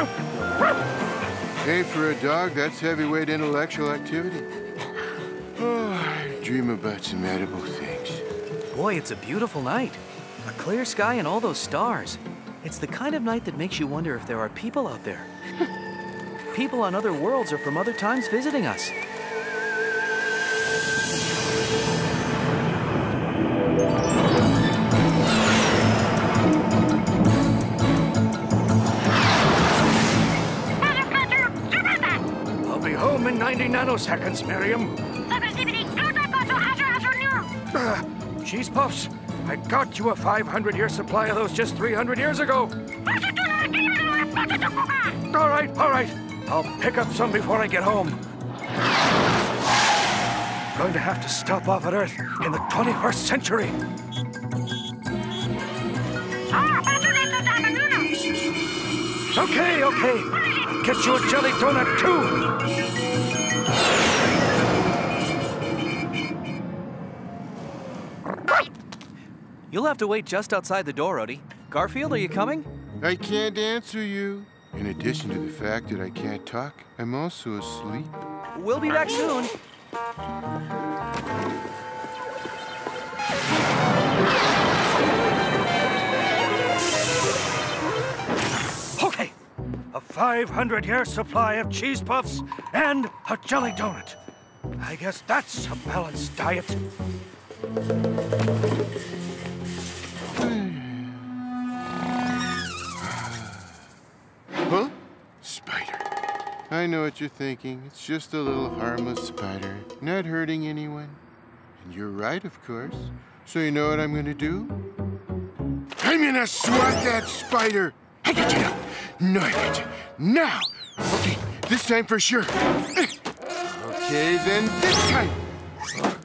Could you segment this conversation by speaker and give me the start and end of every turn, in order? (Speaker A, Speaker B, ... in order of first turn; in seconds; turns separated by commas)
Speaker A: 1.6-4.5, Speaker A: 5.5-8.2, Speaker B: 8.7-15.3, Speaker B: 16.5-18.9, Speaker B: 30.9-31.5, Speaker C: 32.6-35.2, Speaker B: 35.3-37.5, Speaker C: 37.6-42.7, Speaker B: 43.4-45.1, Speaker C: 45.2-48.2, Speaker C: 50.7-53.7, Speaker C: 59.3-62.3, Speaker B: 69.7-72.7, Speaker A: 73.0-78.1, Speaker B: 78.5-79.5, Speaker C: 89.9-94.2, Speaker C: 94.8-96.8, Speaker A: 100.3-101.4, Speaker A: 103.0-103.8, Speaker A: 104.7-106.0, Speaker A: 106.7-111.2, Speaker A: 111.8-114.7, Speaker A: 116.0-125.4